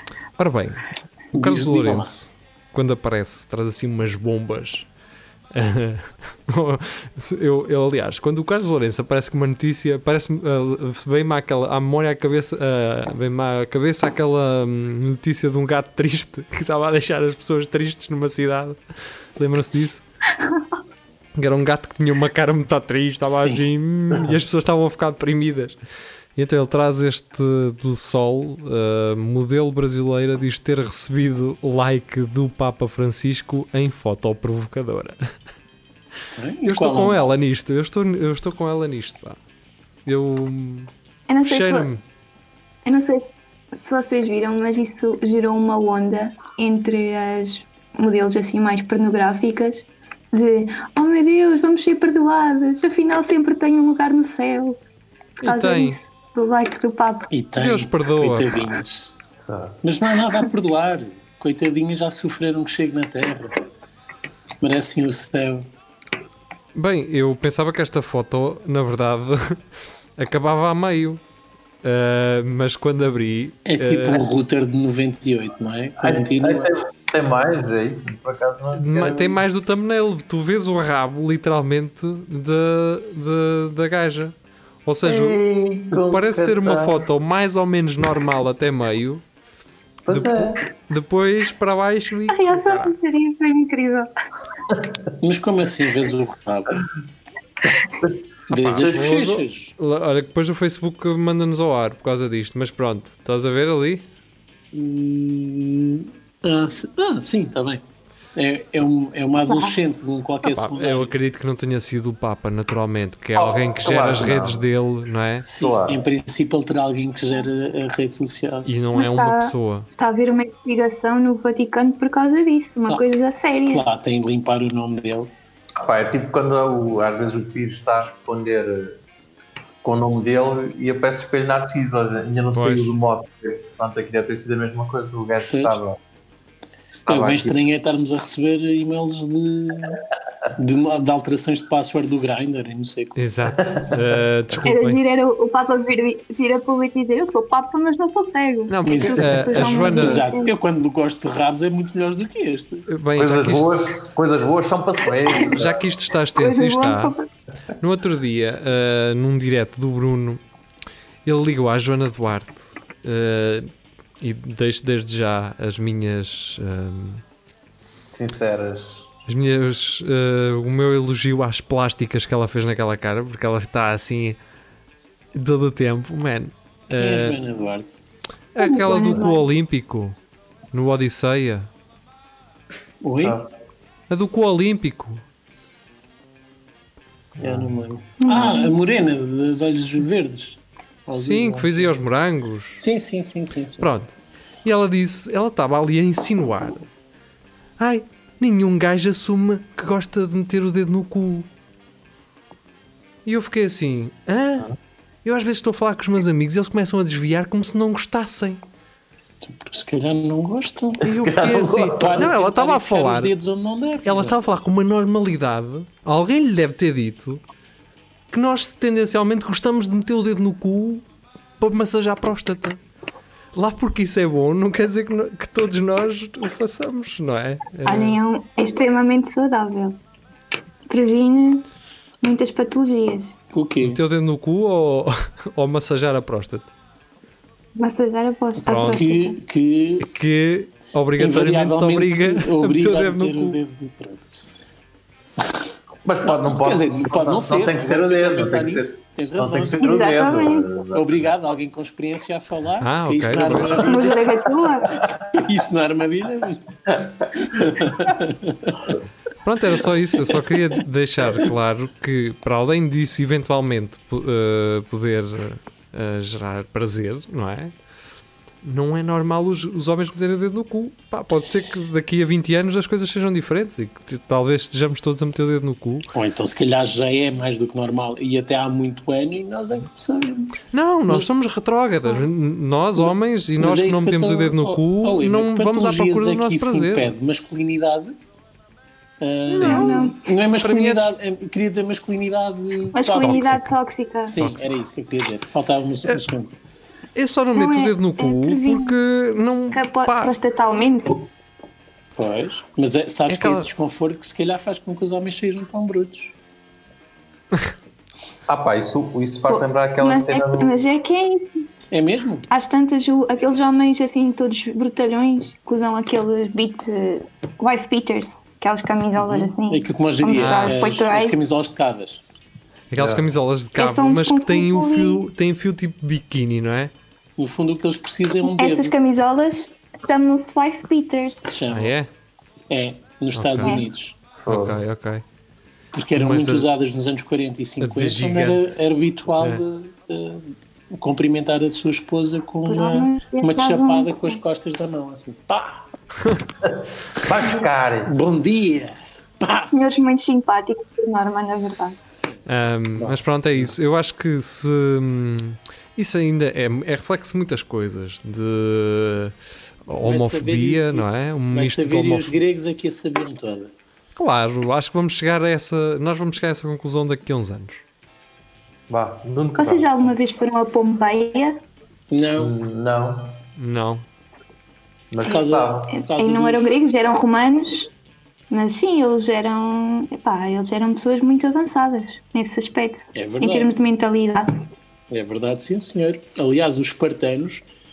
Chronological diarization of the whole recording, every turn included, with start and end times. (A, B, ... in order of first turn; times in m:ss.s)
0:00.4-0:04.9 A
0:01.3-0:02.1 B
0:05.5-0:18.8 A
0:19.4-0:20.0 A
0:21.4-0:25.8 A
0:23.2-0:23.6 B
0:26.4-0:35.2 A
0:36.3-0:37.2 B
0:36.6-0:39.4 A
0:40.0-0:40.9 A
0:41.3-0:41.9 C
0:41.4-0:42.0 A
0:42.8-0:54.8 C
0:55.4-0:56.0 A
0:55.4-0:57.3 C
0:57.3-0:59.1 B
0:57.6-0:58.6 A
0:59.4-0:59.8 D
0:59.8-1:03.6 B
1:04.6-1:05.7 B
1:06.7-1:09.6 A
1:10.2-1:11.2 A
1:11.8-1:14.2 A
1:13.7-1:16.7 B
1:16.0-1:19.4 D
1:18.7-1:24.3 A
1:24.8-1:25.4 A
1:25.0-1:27.0 D
1:25.9-1:29.2 A
1:30.1-1:30.6 D
1:30.1-1:32.9 A
1:32.3-1:34.1 C
1:35.2-1:36.8 B
1:38.5-1:39.7 B
1:38.5-1:44.0 A
1:38.7-1:39.1 D
1:44.7-1:47.8 B
1:48.3-1:51.1 B
1:49.4-1:49.8 C
1:50.4-1:55.4 A
1:53.4-1:54.6 D
1:55.4-1:58.7 B
1:55.6-1:56.0 D
1:58.6-1:59.9 A
1:58.9-2:03.8 C
2:03.6-2:05.3 B
2:05.8-2:09.0 D
2:09.8-2:16.0 D
2:12.5-2:12.9 A
2:15.4-2:15.8 B
2:16.9-2:17.5 D
2:17.1-2:20.0 B
2:20.6-2:23.2 B
2:23.2-2:25.0 A
2:23.6-2:24.0 D
2:24.6-2:30.5 C
2:28.7-2:30.2 A
2:28.9-2:32.9 B
2:32.9-2:33.9 A
2:33.2-2:35.8 D
2:35.4-2:37.1 A
2:36.4-2:37.3 C
2:37.8-2:40.4 A
2:41.2-2:43.7 A
2:44.2-2:47.2 A
2:48.1-2:49.1 D
2:49.3-2:54.4 A
2:55.3-2:57.4 A
2:57.0-2:58.0 B
2:58.5-3:00.1 A
2:58.6-2:59.4 C
2:58.8-2:59.3 D
3:00.7-3:01.7 A
3:03.0-3:03.4 B
3:03.2-3:03.5 D
3:04.1-3:05.2 A
3:07.4-3:07.8 D
3:07.4-3:11.9 B
3:08.2-3:08.7 C
3:11.1-3:12.8 A
3:12.7-3:13.9 B
3:13.8-3:16.8 A
3:17.8-3:21.5 A
3:23.2-3:24.7 A
3:25.2-3:28.6 A
3:29.4-3:31.0 B
3:31.0-3:32.3 D
3:31.0-3:33.3 A
3:31.9-3:34.4 B
3:34.0-3:37.4 A
3:38.3-3:41.0 A
3:41.6-3:42.8 A
3:43.5-3:48.2 A
3:47.8-3:50.0 C
3:50.9-3:51.6 C
3:52.2-3:53.3 C
3:53.5-3:54.0 B
3:53.8-3:56.7 A
3:57.8-3:59.4 C
3:58.6-3:59.0 A
3:58.9-4:00.1 B
4:00.0-4:03.6 A
4:01.2-4:04.4 B
4:06.0-4:11.3 D
4:06.3-4:10.0 B
4:09.8-4:10.8 C
4:10.9-4:14.5 B
4:12.8-4:13.9 A
4:13.7-4:15.0 C
4:15.1-4:16.7 B
4:16.9-4:17.4 D
4:17.3-4:18.9 B
4:19.4-4:27.7 A
4:28.6-4:36.1 A
4:36.1-4:41.3 B
4:40.7-4:47.1 A
4:43.0-4:48.2 B
4:49.2-4:53.6 B
4:49.5-4:50.2 C
4:49.5-4:51.1 A
4:52.9-4:54.4 C
4:53.2-4:53.7 A
4:54.2-4:56.5 B
4:54.3-4:54.6 A
4:57.2-5:00.3 A
4:57.5-4:59.0 C
4:59.7-5:01.3 C
5:02.2-5:06.3 B
5:03.3-5:03.7 A
5:08.5-5:10.8 D
5:09.5-5:11.5 C
5:11.9-5:12.5 B
5:12.5-5:21.4 C
5:19.2-5:22.2 B
5:20.3-5:20.8 A
5:22.9-5:26.9 A
5:23.0-5:23.2 D
5:23.8-5:25.2 C
5:27.4-5:28.9 B
5:28.4-5:31.5 C
5:31.4-5:31.9 B
5:31.7-5:32.1 A
5:32.7-5:34.2 B
5:33.3-5:33.8 A
5:33.6-5:33.9 C
5:34.4-5:34.8 D
5:34.4-5:35.2 A
5:35.9-5:45.9 B
5:36.1-5:36.7 A
5:37.8-5:38.8 A
5:42.6-5:44.4 C
5:46.6-5:48.1 D
5:48.0-5:49.7 B
5:49.7-5:52.0 C
5:52.2-5:52.4 B
5:52.4-5:59.3 A
5:53.0-5:53.7 D
5:59.9-6:02.4 A
6:00.0-6:03.7 B
6:04.1-6:07.8 A
6:08.9-6:10.1 D
6:09.6-6:11.6 C
6:12.1-6:12.5 B
6:12.4-6:13.4 D
6:13.6-6:14.0 A
6:15.1-6:16.0 D
6:15.2-6:16.7 B
6:15.9-6:17.9 C
6:18.5-6:24.5 C
6:23.1-6:23.7 B
6:25.1-6:27.6 B